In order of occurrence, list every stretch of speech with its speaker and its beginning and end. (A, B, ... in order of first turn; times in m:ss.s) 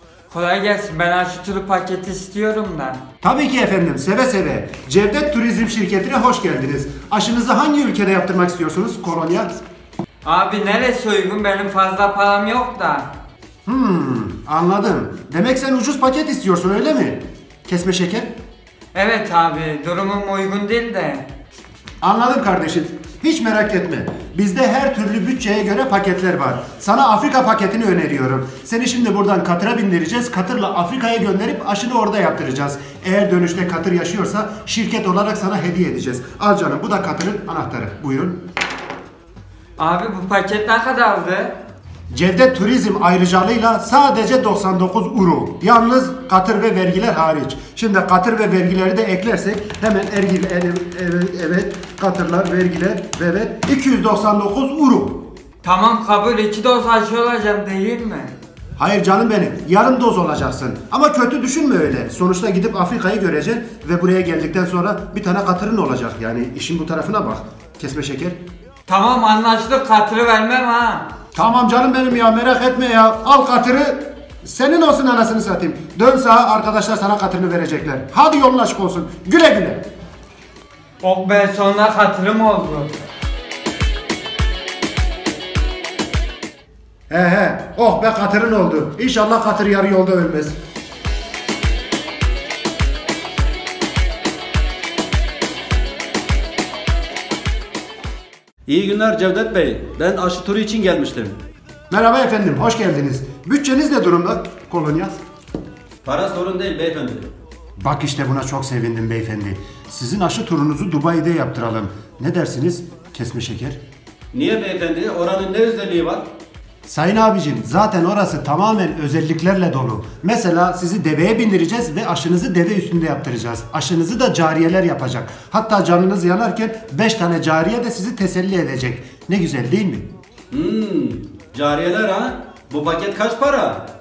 0:00.3-0:03.0 A
0:03.2-0:09.5 B
0:10.2-0:13.1 A
0:13.6-0:18.3 B
0:18.9-0:21.2 A
0:22.0-0:38.4 B
0:39.8-0:41.5 A
0:42.1-0:55.3 B
0:55.6-0:58.3 A
0:58.8-1:08.4 B
1:08.9-1:11.0 A
1:11.3-1:19.8 B
1:21.0-1:23.0 A
1:27.1-1:30.6 B
1:38.7-1:41.4 C
1:41.9-1:45.2 B
1:46.0-1:47.3 C
1:47.8-1:53.8 B
1:54.3-1:56.2 C
1:56.9-2:10.1 B
2:10.5-2:13.8 C